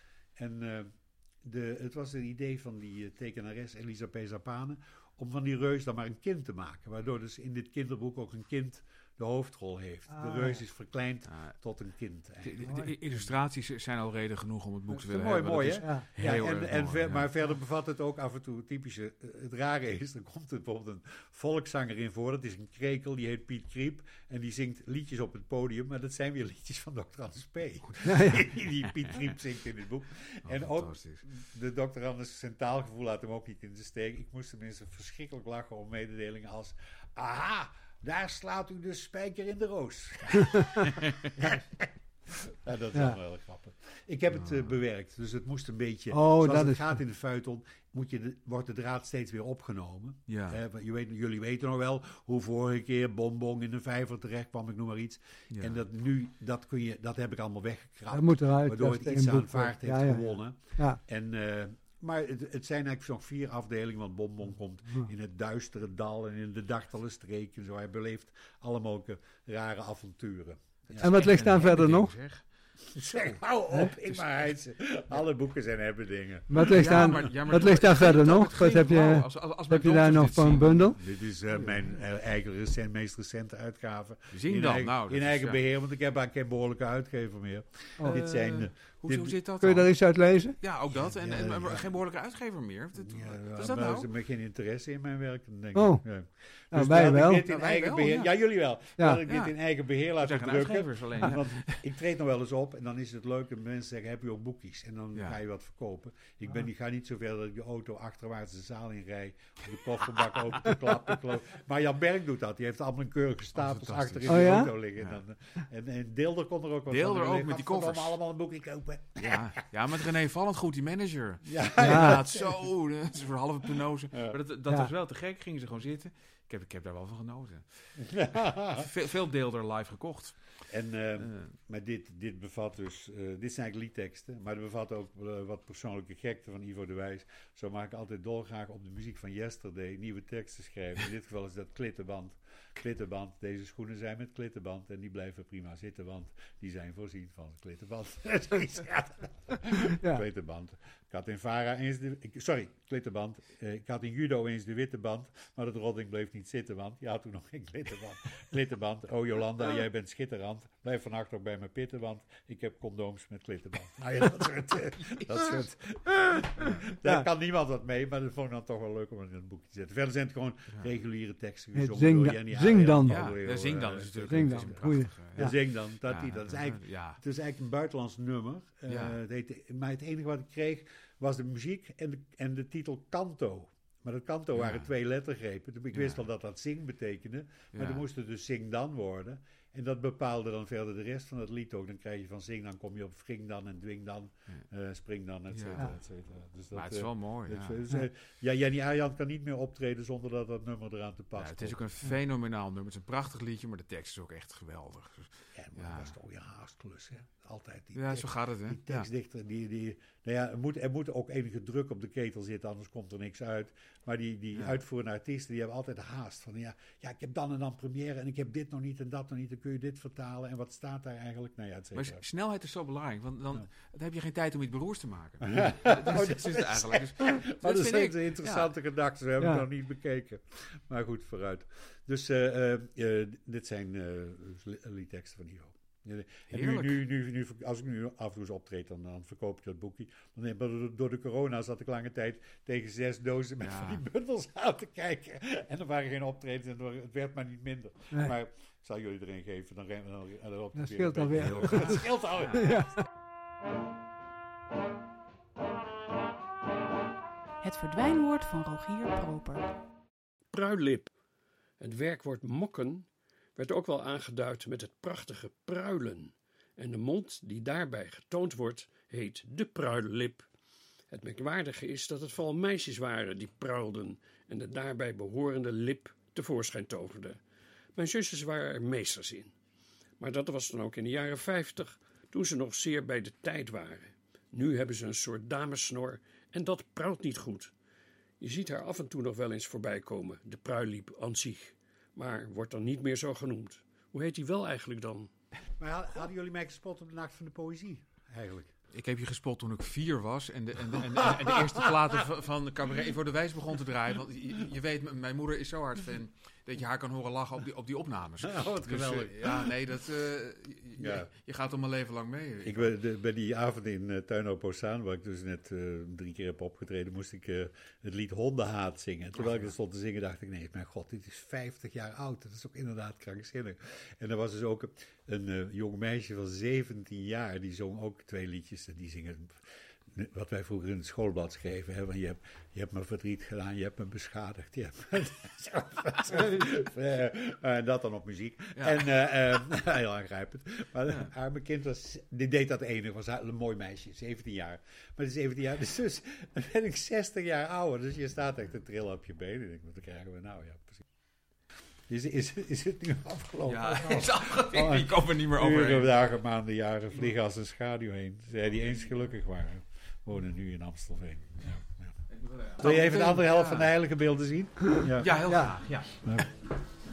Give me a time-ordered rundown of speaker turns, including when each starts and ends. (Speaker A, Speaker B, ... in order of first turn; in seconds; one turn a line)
Speaker A: 0.4-13.3
Speaker B: 10.1-10.6
Speaker C: 11.3-11.5
Speaker C: 12.4-17.3
Speaker B: 12.6-12.9
Speaker A: 14.9-71.1
Speaker B: 15.8-16.1
Speaker B: 28.1-28.5
Speaker C: 30.4-31.2
Speaker B: 42.9-43.2
Speaker B: 46.1-46.9
Speaker C: 50.3-50.6
Speaker C: 55.5-55.8
Speaker B: 58.1-61.0
Speaker C: 70.9-72.4
Speaker B: 71.0-72.1
Speaker A: 72.9-77.2
Speaker C: 73.0-73.4
Speaker B: 76.5-81.0
Speaker C: 76.6-81.0
Speaker A: 81.0-89.4
Speaker C: 84.3-85.6
Speaker C: 88.0-89.9
Speaker B: 89.6-90.6
Speaker C: 90.6-94.1
Speaker A: 90.9-91.9
Speaker A: 93.0-119.7
Speaker B: 95.7-96.0
Speaker B: 96.7-97.5
Speaker C: 97.4-98.3
Speaker B: 99.0-99.2
Speaker C: 99.3-99.5
Speaker C: 100.2-101.8
Speaker C: 113.5-115.2
Speaker B: 114.3-114.7
Speaker C: 116.9-118.2
Speaker C: 119.2-128.1
Speaker A: 121.5-122.5
Speaker B: 121.8-122.2
Speaker A: 128.0-128.9
Speaker C: 128.7-130.4
Speaker A: 130.7-201.8
Speaker C: 131.2-131.5
Speaker B: 171.8-173.3
Speaker C: 173.1-177.2
Speaker B: 174.3-175.6
Speaker C: 178.9-179.2
Speaker C: 184.6-184.9
Speaker C: 185.9-186.2
Speaker C: 187.7-188.1
Speaker C: 195.5-195.9
Speaker C: 196.7-197.8
Speaker C: 201.4-206.1
Speaker A: 205.5-222.2
Speaker C: 207.9-209.1
Speaker C: 221.9-228.7
Speaker A: 225.5-252.7
Speaker B: 229.4-229.7
Speaker C: 236.5-237.0
Speaker C: 243.6-244.0
Speaker B: 250.8-252.0
Speaker C: 251.3-252.7
Speaker B: 252.6-253.0
Speaker D: 257.6-259.7
Speaker E: 260.5-261.1
Speaker E: 261.8-270.5
Speaker E: 271.1-277.4
Speaker E: 277.9-279.5
Speaker E: 280.2-287.7
Speaker E: 288.4-295.3
Speaker A: 295.8-298.7
Speaker C: 298.9-312.9
Speaker A: 301.2-301.6
Speaker A: 308.5-309.7
Speaker A: 311.0-311.3
Speaker A: 312.6-351.1
Speaker C: 319.4-319.7
Speaker C: 338.8-339.0
Speaker A: 352.1-362.1
Speaker C: 353.7-356.1
Speaker C: 362.3-363.9
Speaker A: 362.8-365.3
Speaker C: 365.1-366.5
Speaker A: 366.2-366.5